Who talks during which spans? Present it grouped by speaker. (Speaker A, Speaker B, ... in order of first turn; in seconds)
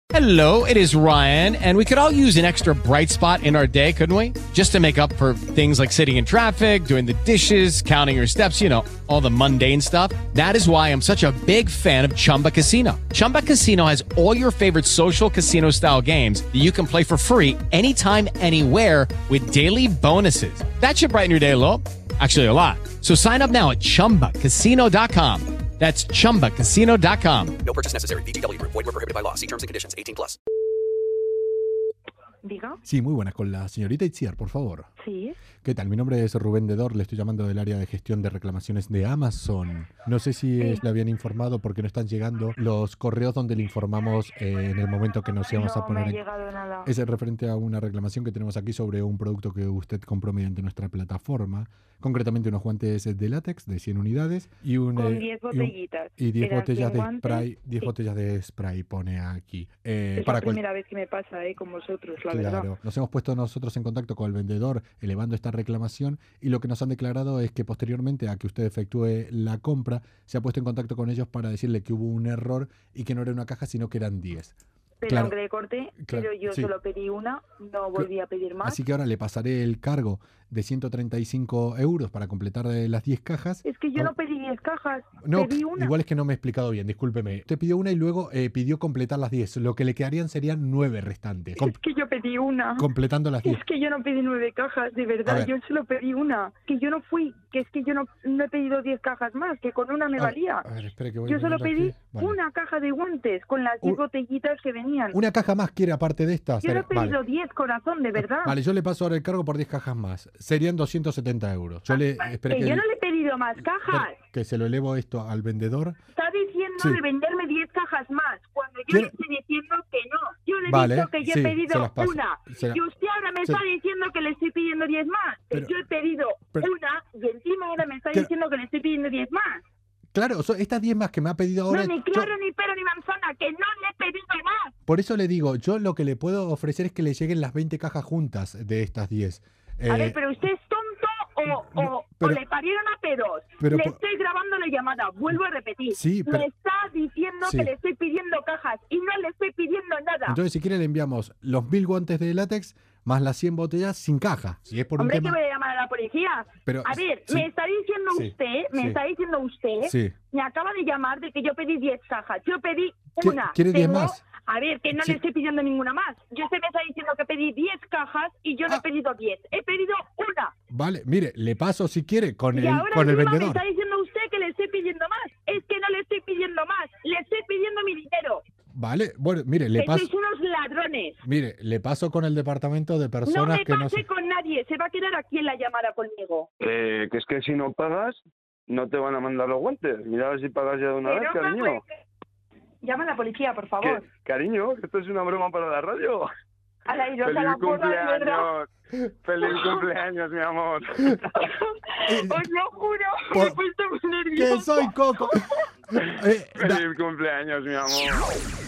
Speaker A: 0.1-27.6
Speaker B: 27.6-30.4
Speaker C: 32.4-32.8, 35.0-35.4, 45.5-46.9, 54.9-57.9, 60.2-62.7, 75.0-78.8, 83.6-85.9, 91.6-92.9, 93.4-100.6, 101.2-105.2, 106.6-108.5, 111.9-114.2, 116.2-129.6, 131.7-134.7, 139.9-150.4, 155.0-170.5, 172.5-178.4, 179.8-181.2, 183.2-186.5, 191.0-191.8, 192.8-194.1, 196.9-198.4, 199.4-199.8, 201.3-205.5
Speaker D: 32.8-34.9, 35.6-46.2, 46.8-60.6, 62.2-74.5, 75.1-75.3, 76.0-76.7, 78.6-84.1, 85.2-91.8, 92.8-93.6, 95.2-95.5, 100.2-102.4, 105.1-107.2, 108.1-112.8, 113.8-116.0, 120.6-122.8, 130.1-132.3, 134.9-140.2, 141.4-142.4, 143.6-144.0, 145.9-146.5, 147.4-147.7, 150.2-155.4, 156.6-157.5, 158.1-159.0, 159.8-160.2, 163.2-164.2, 164.9-165.2, 170.7-173.6, 178.7-180.1, 181.2-184.0, 202.1-202.4, 203.3-203.6, 204.3-205.4, 206.0-206.8
Speaker E: 186.6-191.8, 193.8-196.3, 197.2-198.7, 199.2-201.2, 206.0-208.4